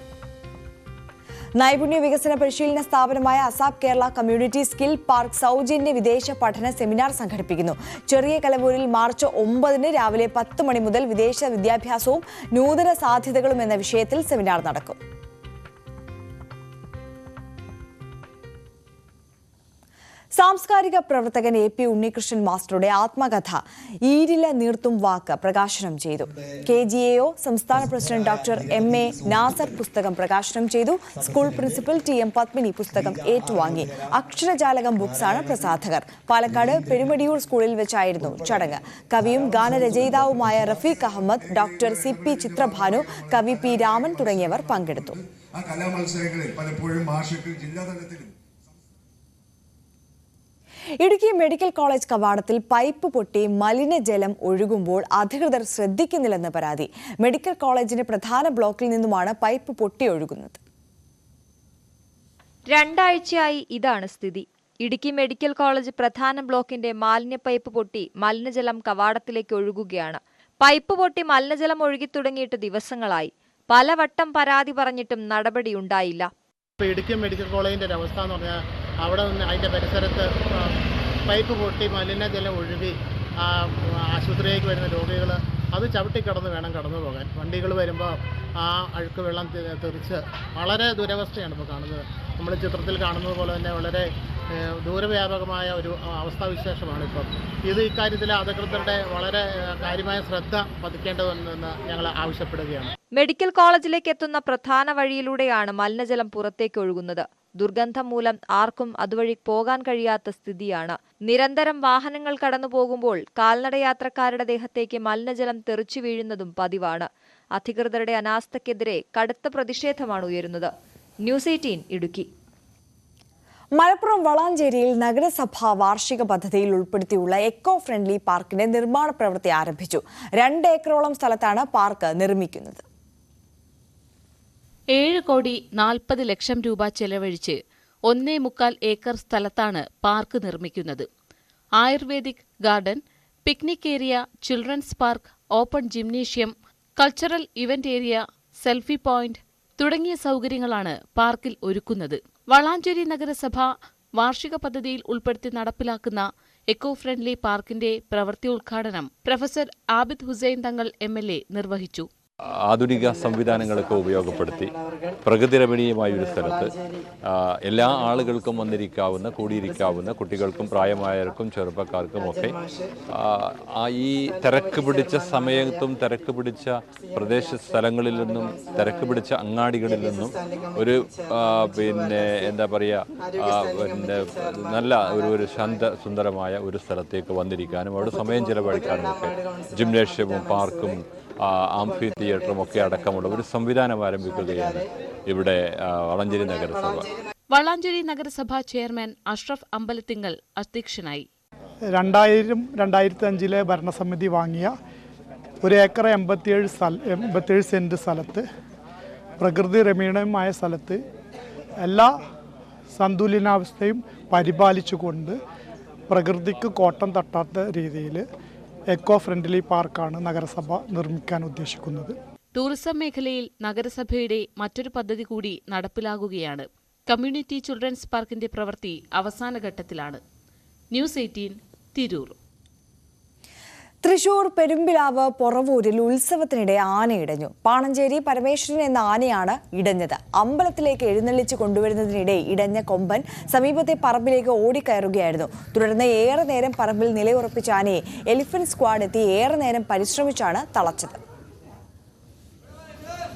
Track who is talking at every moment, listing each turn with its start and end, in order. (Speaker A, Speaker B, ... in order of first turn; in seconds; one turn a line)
Speaker A: 1.6-15.0
Speaker A: 20.3-45.2
Speaker B: 41.6-48.4
Speaker A: 51.0-60.6
Speaker C: 62.7-76.3
Speaker D: 76.8-102.9
Speaker C: 103.2-120.7
Speaker C: 121.2-122.3
Speaker A: 123.8-132.8
Speaker E: 134.9-141.1
Speaker E: 141.8-162.1
Speaker F: 162.7-164.7
Speaker F: 165.2-166.7
Speaker F: 167.3-172.6
Speaker F: 173.2-197.1
Speaker E: 197.5-201.3
Speaker G: 201.9-204.7
Speaker G: 205.6-208.4
Speaker G: 209.4-211.0
Speaker G: 211.8-212.2
Speaker G: 212.9-215.4
Speaker G: 216.1-218.2
Speaker G: 218.9-222.2
Speaker E: 222.5-230.2
Speaker E: 230.9-232.3
Speaker A: 234.0-251.2